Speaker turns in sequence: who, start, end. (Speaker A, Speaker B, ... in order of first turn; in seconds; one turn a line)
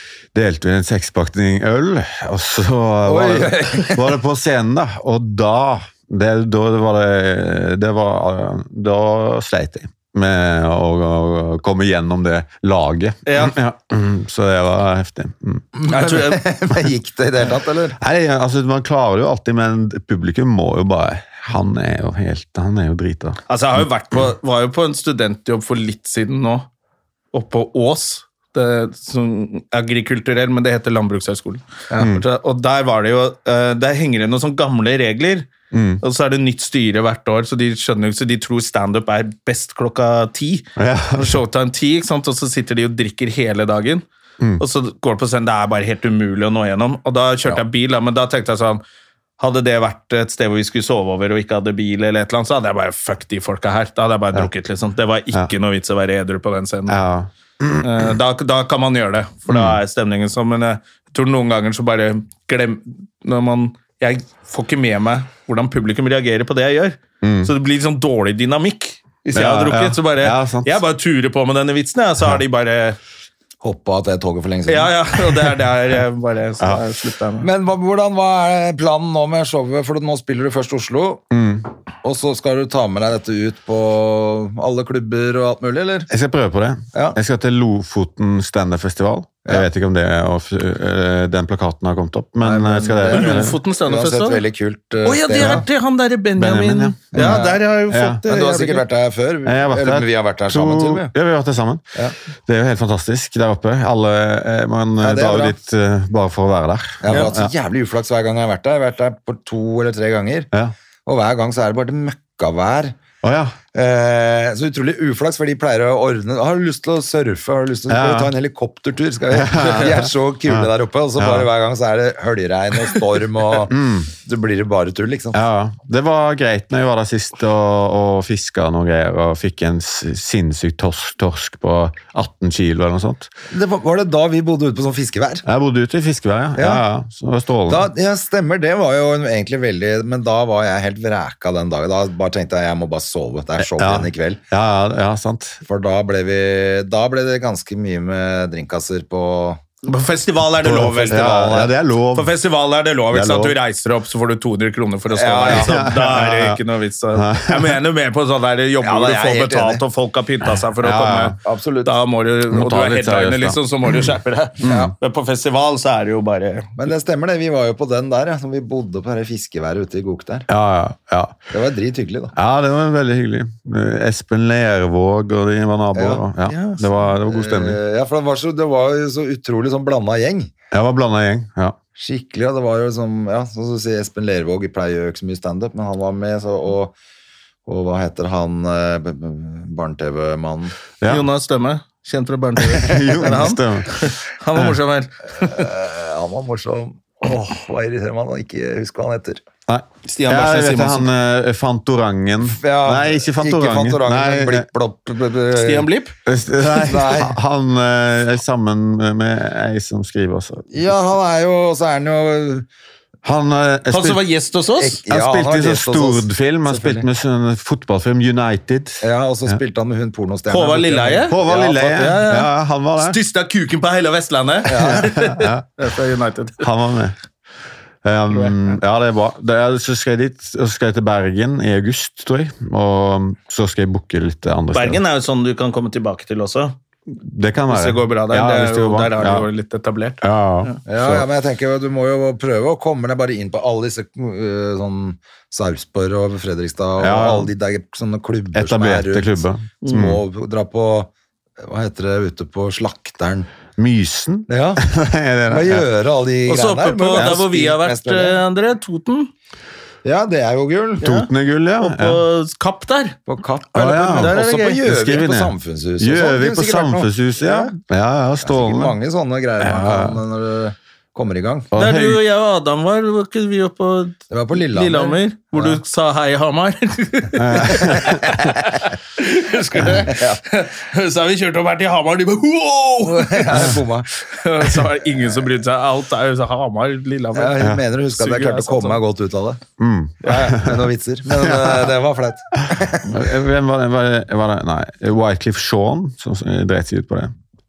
Speaker A: 0.3-15.8
Speaker B: 3.0-4.1
Speaker C: 13.2-13.5
Speaker B: 15.8-18.0
Speaker C: 15.8-16.4
Speaker A: 18.0-23.4
Speaker C: 23.5-26.7
Speaker C: 27.3-35.5
Speaker A: 32.0-32.2
Speaker A: 35.7-36.0
Speaker C: 36.0-44.0
Speaker A: 40.8-41.4
Speaker C: 44.6-48.8
Speaker C: 49.4-57.0
Speaker A: 56.9-58.1
Speaker C: 57.8-73.0
Speaker A: 59.5-59.8
Speaker A: 67.2-67.5
Speaker A: 69.3-70.8
Speaker B: 73.6-75.0
Speaker C: 74.7-77.5
Speaker B: 77.4-81.2
Speaker A: 81.3-81.7
Speaker B: 82.0-86.1
Speaker A: 86.1-93.6
Speaker B: 92.4-95.6
Speaker C: 93.1-94.4
Speaker C: 95.0-98.8
Speaker A: 96.4-98.2
Speaker B: 97.1-97.6
Speaker B: 98.2-101.1
Speaker A: 99.5-101.8
Speaker A: 102.5-107.5
Speaker B: 105.0-105.5
Speaker B: 107.0-110.5
Speaker B: 111.0-113.0
Speaker A: 113.2-113.5
Speaker B: 113.7-125.4
Speaker A: 117.9-118.3
Speaker A: 119.3-121.5
Speaker A: 123.7-124.1
Speaker A: 125.3-133.3
Speaker B: 133.5-135.4
Speaker A: 135.4-137.9
Speaker B: 136.6-136.8
Speaker B: 137.7-144.4
Speaker A: 143.6-145.6
Speaker B: 145.6-149.6
Speaker C: 149.8-151.6
Speaker A: 150.6-152.3
Speaker B: 151.1-151.7
Speaker C: 152.1-166.8
Speaker A: 153.1-153.5
Speaker B: 155.1-155.8
Speaker A: 155.5-156.6
Speaker A: 157.1-157.8
Speaker B: 158.8-159.8
Speaker A: 160.8-161.4
Speaker B: 161.4-161.9
Speaker A: 162.5-164.1
Speaker B: 164.6-164.9
Speaker A: 164.6-164.9
Speaker B: 166.8-170.5
Speaker A: 170.5-171.4
Speaker B: 171.5-172.3
Speaker A: 172.3-177.8
Speaker B: 175.9-176.2
Speaker C: 176.5-177.0
Speaker B: 177.2-180.5
Speaker A: 180.7-181.8
Speaker B: 181.9-186.9
Speaker B: 187.7-190.7
Speaker A: 191.0-191.2
Speaker C: 191.1-195.7
Speaker A: 192.7-194.7
Speaker B: 195.3-199.4
Speaker A: 199.7-204.7
Speaker C: 200.0-201.1
Speaker B: 202.4-205.9
Speaker C: 205.5-206.1
Speaker A: 206.2-210.8
Speaker B: 206.7-207.3
Speaker B: 210.7-212.7
Speaker A: 213.2-214.2
Speaker C: 213.9-215.0
Speaker B: 214.8-217.1
Speaker A: 215.1-219.5
Speaker B: 219.0-222.0
Speaker C: 220.5-226.7
Speaker A: 221.3-223.2
Speaker B: 224.7-225.1
Speaker A: 224.8-225.7
Speaker A: 226.6-227.1
Speaker A: 228.0-235.0
Speaker C: 228.3-228.8
Speaker C: 234.7-236.7
Speaker A: 237.1-239.5
Speaker C: 237.7-240.8
Speaker A: 240.2-241.2
Speaker B: 240.8-253.5
Speaker A: 247.0-247.5
Speaker A: 248.5-250.2
Speaker A: 253.8-255.8
Speaker B: 254.5-254.8
Speaker B: 255.5-258.4
Speaker C: 256.5-259.3
Speaker B: 260.0-261.1
Speaker C: 261.0-263.2
Speaker A: 261.0-262.2
Speaker B: 263.3-267.7
Speaker C: 263.7-264.8
Speaker A: 263.8-268.9
Speaker B: 268.4-271.7
Speaker A: 269.6-270.2
Speaker A: 271.7-272.2
Speaker C: 271.8-287.6
Speaker B: 274.3-275.2
Speaker A: 277.4-278.2
Speaker B: 277.9-278.1
Speaker B: 280.0-280.4
Speaker B: 283.0-284.1
Speaker B: 287.3-289.6
Speaker C: 288.1-289.0
Speaker A: 289.8-291.9
Speaker C: 290.2-290.6
Speaker B: 290.3-293.2
Speaker A: 293.1-297.3